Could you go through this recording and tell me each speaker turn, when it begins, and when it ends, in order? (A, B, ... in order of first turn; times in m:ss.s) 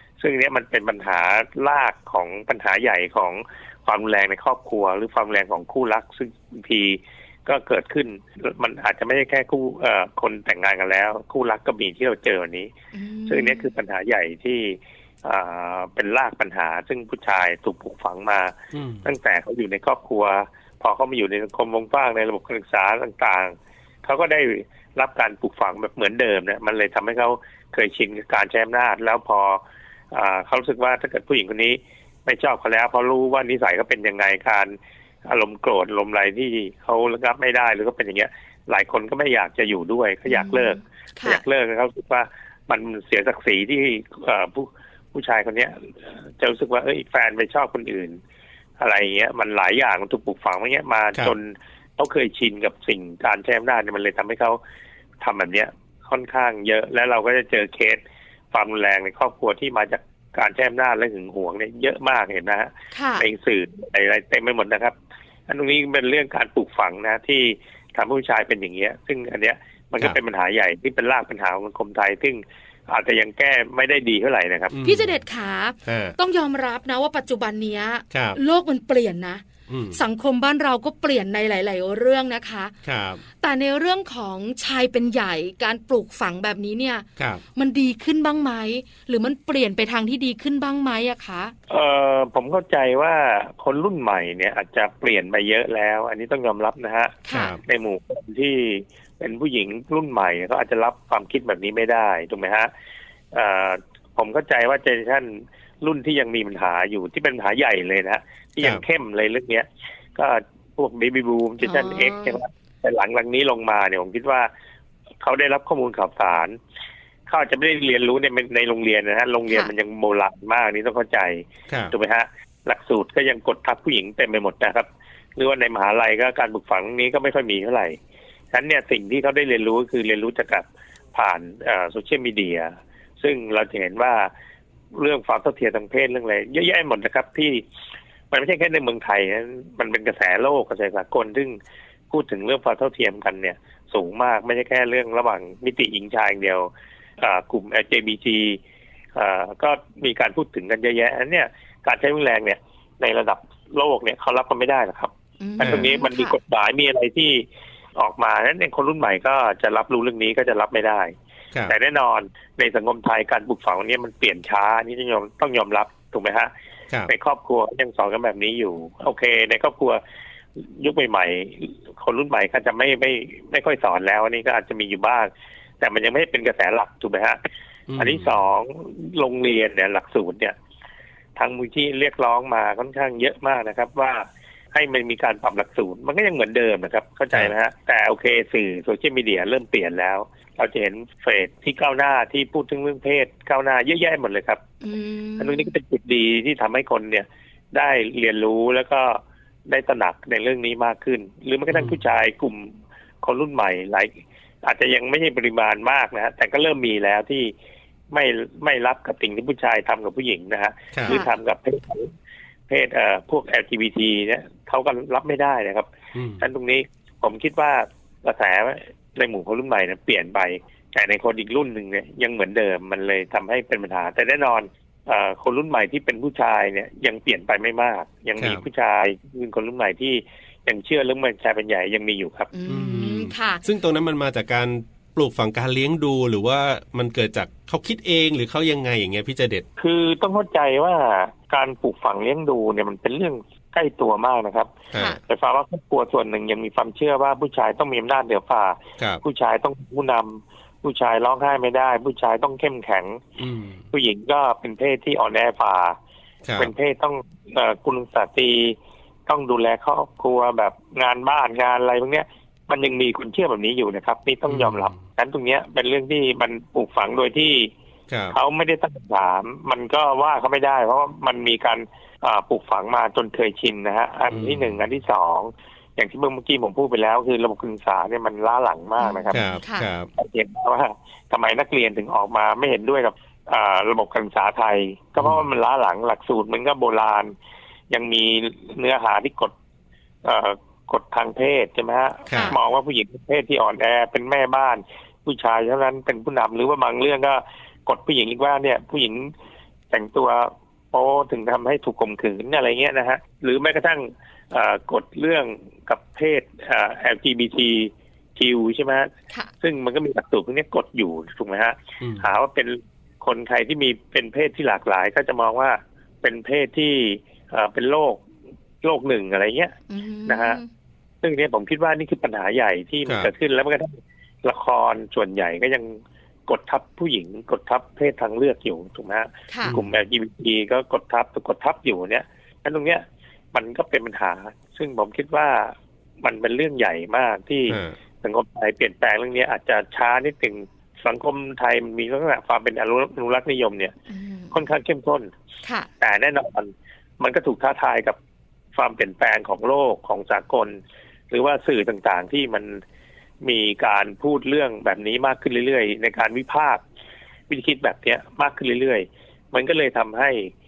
0:00.2-0:12.7 A
0:12.9-0:13.7 B
0:13.3-0:29.6 A
0:18.7-0:19.0 C
0:30.1-0:48.2 A
0:40.3-0:41.4 B
0:48.8-0:54.6 A
0:55.2-0:58.0 A
0:58.5-1:05.0 A
1:02.9-1:03.3 B
1:05.5-1:14.8 A
1:14.7-1:15.1 C
1:14.8-1:22.7 B
1:15.8-1:16.2 C
1:18.1-1:18.4 C
1:19.7-1:20.0 C
1:22.8-1:23.2 C
1:23.4-1:31.5 B
1:27.2-1:27.4 C
1:31.7-1:42.7 A
1:37.3-1:37.5 B
1:37.3-1:37.6 C
1:43.3-1:54.5 A
1:51.6-1:52.4 B
1:55.2-1:56.6 A
1:57.3-2:08.0 A
2:01.7-2:01.9 C
2:08.5-2:14.3 A
2:15.0-2:17.6 A
2:18.3-2:21.6 A
2:22.1-2:28.6 A
2:29.2-2:37.4 A
2:35.4-2:36.4 B
2:35.6-2:35.9 C
2:38.0-2:41.1 A
2:41.7-2:46.5 A
2:47.1-2:50.0 A
2:50.6-2:57.4 A
2:57.9-2:58.4 C
2:58.0-3:00.6 A
3:01.4-3:14.6 A
3:14.8-3:15.7 B
3:15.4-3:24.1 A
3:21.7-3:22.0 C
3:24.6-3:27.5 A
3:28.1-3:32.1 A
3:30.9-3:31.2 C
3:31.1-3:31.3 B
3:32.7-3:52.5 A
3:36.2-3:36.5 C
3:48.4-3:48.6 C
3:52.5-3:53.6 B
3:52.7-3:59.7 C
3:59.8-4:13.2 A
4:04.9-4:05.2 C
4:13.4-4:13.8 C
4:13.9-4:16.0 A
4:16.4-4:16.7 C
4:16.6-4:27.7 A
4:24.5-4:25.0 C
4:28.1-4:28.4 C
4:28.3-4:39.4 A
4:34.3-4:34.8 C
4:39.0-4:39.9 B
4:39.3-4:40.1 C
4:40.2-4:47.3 A
4:45.2-4:45.5 C
4:47.9-4:49.5 A
4:50.2-4:59.3 A
4:52.3-4:52.6 C
4:52.3-4:52.6 B
4:59.9-5:09.1 A
5:09.6-5:18.2 A
5:12.0-5:12.3 C
5:18.8-5:19.7 A
5:19.9-5:20.7 B
5:20.3-5:20.6 A
5:21.2-5:43.9 A
5:23.1-5:23.3 C
5:29.5-5:29.8 B
5:29.6-5:30.0 C
5:37.7-5:38.0 C
5:44.1-5:44.6 B
5:44.5-5:45.3 A
5:45.6-5:45.9 B
5:46.0-5:48.2 A
5:48.8-5:50.8 A
5:51.3-5:52.8 A
5:53.4-5:56.8 A
5:57.5-6:00.5 A